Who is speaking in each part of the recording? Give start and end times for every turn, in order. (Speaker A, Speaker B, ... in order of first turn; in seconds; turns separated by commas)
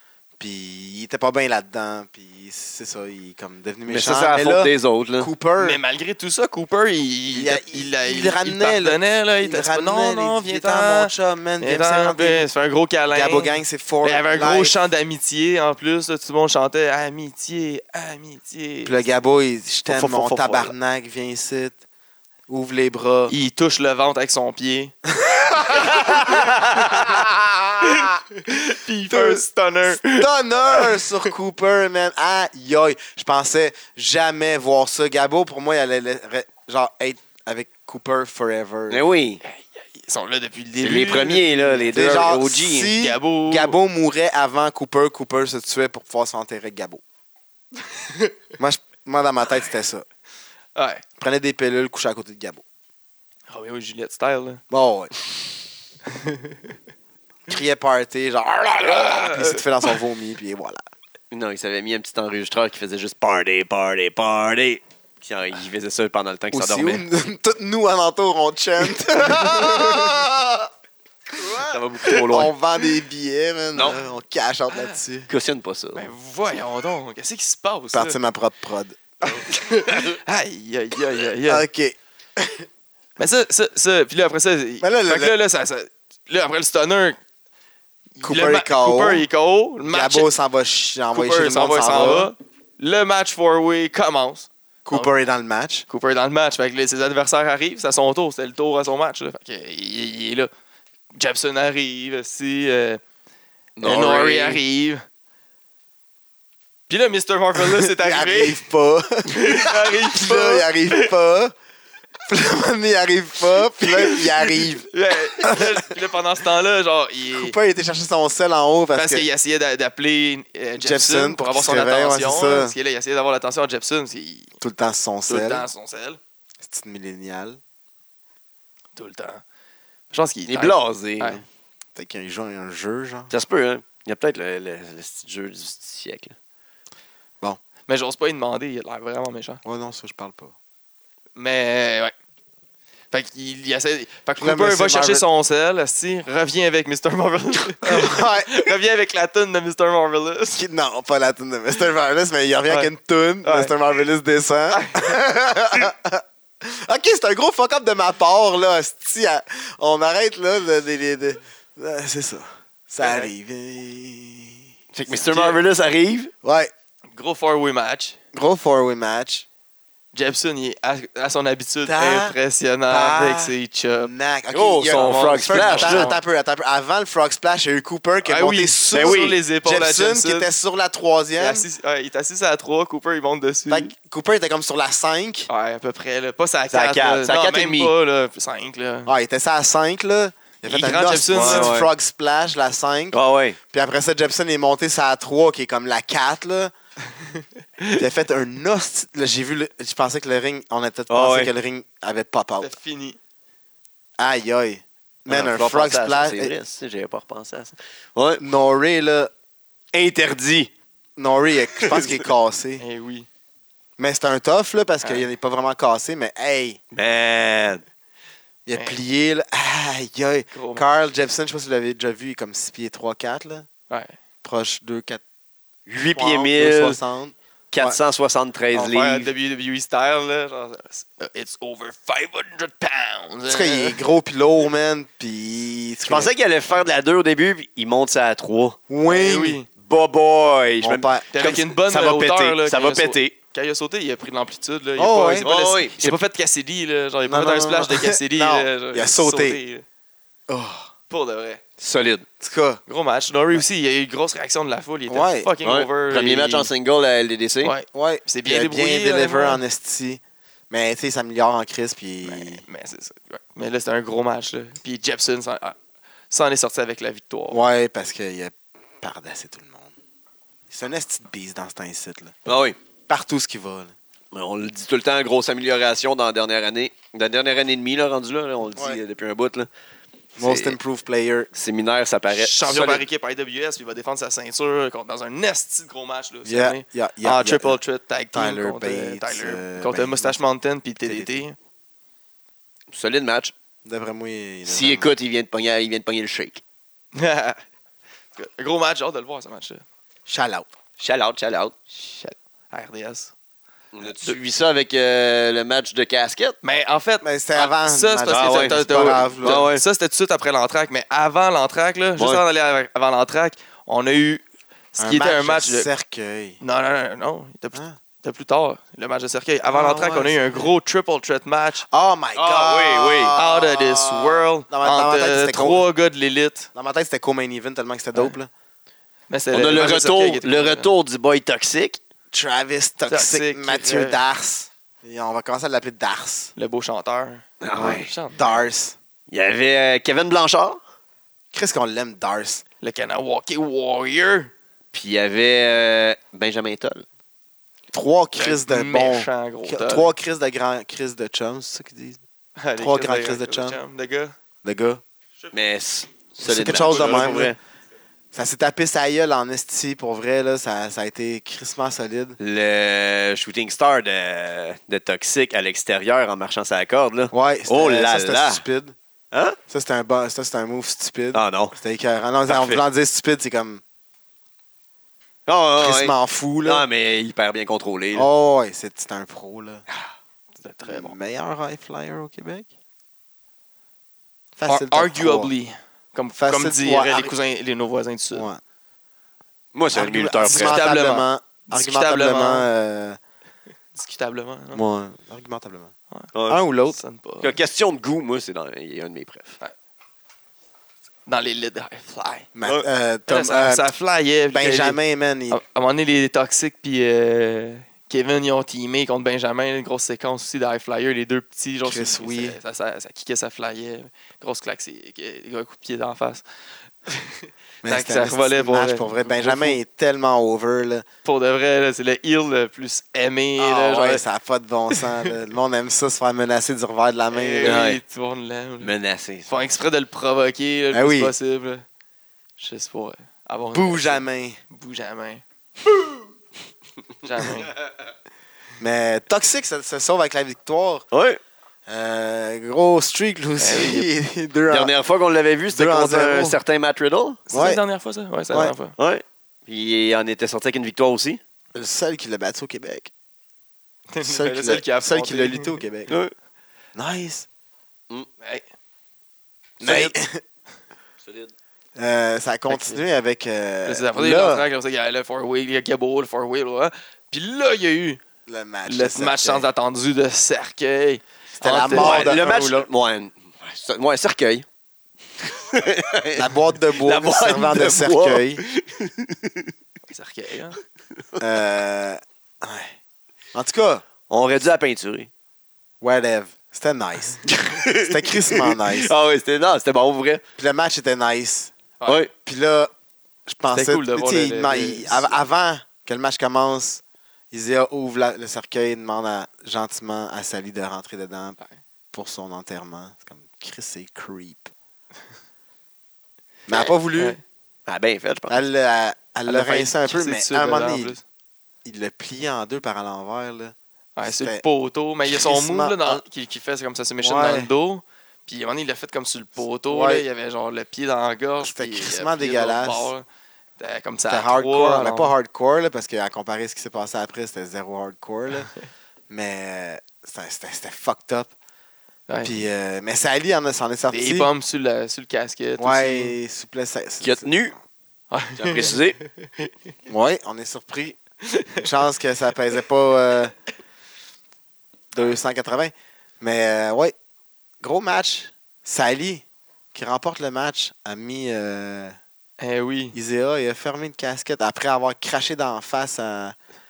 Speaker A: 0.4-5.8, Speaker B: 3.9-5.3, Speaker C: 5.6-19.0, Speaker A: 7.3-12.5, Speaker A: 13.1-14.8, Speaker A: 18.9-21.8, Speaker B: 19.9-20.7, Speaker A: 22.5-23.4, Speaker C: 23.3-24.9, Speaker A: 25.1-28.2, Speaker C: 25.7-27.2, Speaker C: 27.8-31.3, Speaker A: 29.1-39.0, Speaker B: 38.9-39.4, Speaker C: 39.4-41.9, Speaker B: 40.8-42.9, Speaker A: 41.9-47.0, Speaker C: 43.0-43.8, Speaker C: 48.0-48.3, Speaker A: 48.6-50.0, Speaker C: 50.8-51.0, Speaker A: 51.2-52.6, Speaker C: 53.5-54.6, Speaker A: 54.7-55.1, Speaker C: 56.1-56.6, Speaker A: 57.5-60.9, Speaker C: 58.8-60.0, Speaker B: 61.3-67.0, Speaker A: 66.5-70.7, Speaker C: 69.3-70.1, Speaker C: 71.4-71.8, Speaker B: 71.7-72.5, Speaker A: 72.2-75.3, Speaker C: 74.7-75.0, Speaker B: 75.3-76.1, Speaker C: 76.0-78.2, Speaker A: 77.9-79.0, Speaker C: 79.3-81.7, Speaker A: 81.5-82.7, Speaker C: 83.2-87.2, Speaker A: 84.8-85.3, Speaker C: 88.2-90.3, Speaker A: 88.2-89.3, Speaker A: 89.9-92.3, Speaker C: 91.1-95.1, Speaker A: 94.9-95.9, Speaker C: 95.9-100.5, Speaker C: 101.1-103.0, Speaker B: 103.8-104.6, Speaker C: 103.8-105.0, Speaker C: 106.9-108.6, Speaker A: 107.6-111.5, Speaker C: 109.3-111.1, Speaker A: 112.3-114.9, Speaker C: 113.8-117.6, Speaker A: 115.4-115.9, Speaker A: 117.3-119.3, Speaker C: 119.0-124.5, Speaker A: 120.8-122.8, Speaker A: 124.6-125.7, Speaker C: 125.3-126.2, Speaker A: 126.6-127.6, Speaker C: 129.0-129.4, Speaker C: 130.1-131.4, Speaker B: 130.5-131.4, Speaker A: 131.9-133.3, Speaker B: 133.3-136.3, Speaker C: 137.9-139.6, Speaker A: 139.7-140.5, Speaker C: 141.4-142.1, Speaker C: 143.1-150.7, Speaker A: 144.4-145.2, Speaker A: 147.8-148.7, Speaker A: 150.5-164.7, Speaker C: 153.4-153.7, Speaker C: 154.7-155.2, Speaker C: 163.0-163.3, Speaker B: 164.9-166.3, Speaker C: 165.1-165.6, Speaker A: 166.4-166.7, Speaker C: 167.1-168.2, Speaker A: 168.3-169.5, Speaker C: 170.1-174.1, Speaker A: 171.8-172.4, Speaker A: 172.9-181.7, Speaker B: 174.5-176.1, Speaker C: 174.9-176.2, Speaker C: 178.2-180.5, Speaker B: 178.9-179.4, Speaker C: 181.4-183.9, Speaker A: 183.7-185.5, Speaker C: 185.5-189.1, Speaker B: 186.7-187.9, Speaker A: 189.1-193.2, Speaker C: 190.7-191.7, Speaker B: 191.3-191.9, Speaker B: 193.1-193.6, Speaker A: 193.7-196.7, Speaker A: 197.9-202.7, Speaker B: 201.1-201.5, Speaker C: 202.6-203.2, Speaker A: 204.2-206.5, Speaker B: 205.3-208.4, Speaker A: 208.4-209.3, Speaker B: 209.9-210.7, Speaker A: 211.2-212.8, Speaker B: 211.8-212.2, Speaker C: 212.8-213.3, Speaker A: 214.0-216.8, Speaker B: 216.9-217.8, Speaker A: 218.7-223.7, Speaker C: 220.5-220.8, Speaker C: 223.9-224.2, Speaker A: 224.4-225.2, Speaker B: 225.9-227.0, Speaker A: 226.1-228.0, Speaker B: 227.7-229.3, Speaker C: 228.7-234.0, Speaker A: 233.5-236.3, Speaker B: 236.1-238.8, Speaker A: 238.9-239.6, Speaker C: 239.1-239.7, Speaker B: 239.8-243.3, Speaker A: 240.8-241.6, Speaker C: 241.3-249.8, Speaker A: 245.0-245.5, Speaker B: 245.4-246.2, Speaker A: 247.2-249.6, Speaker A: 250.5-250.9, Speaker C: 251.1-251.6, Speaker B: 251.8-252.2, Speaker A: 252.4-252.8, Speaker C: 252.9-256.7, Speaker A: 255.1-255.5, Speaker B: 255.6-257.7, Speaker C: 257.6-259.6, Speaker A: 257.9-262.6, Speaker C: 262.2-265.8, Speaker C: 266.3-267.6, Speaker A: 267.5-269.9, Speaker A: 270.7-272.4, Speaker B: 272.5-272.8, Speaker A: 273.1-273.9, Speaker B: 274.3-279.7, Speaker B: 280.4-280.8, Speaker A: 280.4-281.5, Speaker B: 281.5-283.1, Speaker C: 282.3-291.6, Speaker A: 286.4-287.8, Speaker A: 288.3-290.4, Speaker A: 291.0-291.4, Speaker B: 292.9-293.5, Speaker A: 293.9-295.1, Speaker B: 294.7-296.6, Speaker C: 297.1-297.6, Speaker C: 298.4-299.8, Speaker A: 300.3-300.7, Speaker B: 301.0-301.7, Speaker C: 301.9-303.3, Speaker B: 303.9-306.6, Speaker C: 306.6-314.4, Speaker A: 307.2-309.7, Speaker B: 308.3-309.8, Speaker B: 312.2-312.4, Speaker C: 314.9-315.9, Speaker A: 315.0-316.6, Speaker C: 316.6-321.9, Speaker A: 319.7-320.7, Speaker A: 321.9-325.9, Speaker B: 322.4-323.4, Speaker C: 323.3-326.7, Speaker A: 326.8-328.5, Speaker C: 329.3-330.9, Speaker B: 329.5-332.0, Speaker A: 332.3-336.5, Speaker C: 333.1-334.2, Speaker C: 336.6-338.6, Speaker B: 337.6-338.1, Speaker A: 337.8-339.0, Speaker B: 339.3-340.8, Speaker A: 341.5-342.6, Speaker C: 342.8-344.5, Speaker B: 344.9-347.1, Speaker A: 347.9-352.2, Speaker C: 348.4-350.1, Speaker C: 352.6-354.4, Speaker A: 352.8-353.8, Speaker A: 354.6-355.0, Speaker C: 355.4-355.6, Speaker B: 355.5-357.6, Speaker A: 356.4-357.6, Speaker C: 356.6-357.5, Speaker A: 358.3-362.4, Speaker B: 362.4-368.6, Speaker A: 367.3-368.9, Speaker B: 369.3-369.6, Speaker A: 369.7-373.8, Speaker B: 371.3-371.8, Speaker B: 372.5-372.8, Speaker B: 375.5-378.3, Speaker A: 375.8-376.9, Speaker A: 378.1-379.9, Speaker C: 380.6-381.1, Speaker A: 380.8-382.7, Speaker A: 384.6-385.5, Speaker C: 384.7-388.5, Speaker A: 386.4-387.3, Speaker A: 388.3-388.6, Speaker B: 389.7-390.8, Speaker A: 389.9-393.2, Speaker C: 390.5-392.7, Speaker C: 393.9-394.8, Speaker A: 394.7-395.9, Speaker B: 396.3-396.6, Speaker A: 396.5-397.0, Speaker C: 396.9-397.6, Speaker B: 397.4-399.6, Speaker C: 401.3-402.5, Speaker A: 402.6-403.9, Speaker C: 403.3-405.0, Speaker A: 404.5-405.6, Speaker C: 405.5-416.4, Speaker A: 411.8-412.6, Speaker C: 417.1-419.8, Speaker A: 417.8-421.1, Speaker C: 421.2-424.2, Speaker A: 423.6-427.9, Speaker C: 424.9-425.4, Speaker C: 427.3-428.9, Speaker B: 427.6-428.0, Speaker B: 428.8-429.5, Speaker C: 429.5-431.8, Speaker A: 430.9-431.3, Speaker C: 432.6-435.4, Speaker A: 433.7-434.6, Speaker C: 437.2-437.7, Speaker A: 438.8-441.1, Speaker B: 441.1-441.4, Speaker A: 441.9-444.9, Speaker C: 443.6-444.1, Speaker B: 444.7-447.4, Speaker A: 445.7-446.6, Speaker C: 447.5-448.9, Speaker A: 447.5-447.8, Speaker B: 449.0-451.4, Speaker A: 451.7-453.1, Speaker C: 454.1-455.8, Speaker A: 454.2-456.1, Speaker A: 456.9-457.5, Speaker C: 458.4-458.7, Speaker B: 459.8-460.1, Speaker A: 459.8-460.4, Speaker B: 461.2-461.5, Speaker A: 462.0-464.7, Speaker C: 462.7-463.0, Speaker C: 463.9-468.2, Speaker A: 468.5-469.7, Speaker C: 468.9-472.7, Speaker A: 471.6-472.8, Speaker B: 471.9-474.6, Speaker B: 475.4-479.7, Speaker A: 476.3-478.6, Speaker C: 480.1-480.8, Speaker A: 481.4-482.9, Speaker A: 483.5-484.0, Speaker B: 484.3-485.3, Speaker A: 486.0-489.1, Speaker B: 487.5-490.4, Speaker A: 490.6-491.7, Speaker B: 492.1-492.3, Speaker A: 492.4-492.9, Speaker A: 493.5-501.6, Speaker C: 493.7-495.4, Speaker A: 502.1-504.7, Speaker A: 506.7-507.4, Speaker B: 507.9-508.6, Speaker A: 508.5-511.2, Speaker C: 509.5-511.2, Speaker A: 511.8-514.6, Speaker C: 514.2-523.2, Speaker A: 515.2-516.2, Speaker A: 517.2-517.7, Speaker A: 519.9-520.3, Speaker A: 521.6-523.1, Speaker C: 523.8-525.3, Speaker A: 524.3-528.7, Speaker A: 529.3-531.5, Speaker C: 532.3-532.5, Speaker A: 532.4-534.5, Speaker C: 534.1-536.4, Speaker A: 535.8-537.8, Speaker B: 537.2-537.8, Speaker C: 538.3-539.7, Speaker B: 538.6-539.2, Speaker A: 540.1-541.2, Speaker C: 541.5-541.9, Speaker A: 541.8-543.5, Speaker A: 545.1-547.1, Speaker A: 547.8-552.2, Speaker C: 552.6-553.2, Speaker A: 553.1-556.6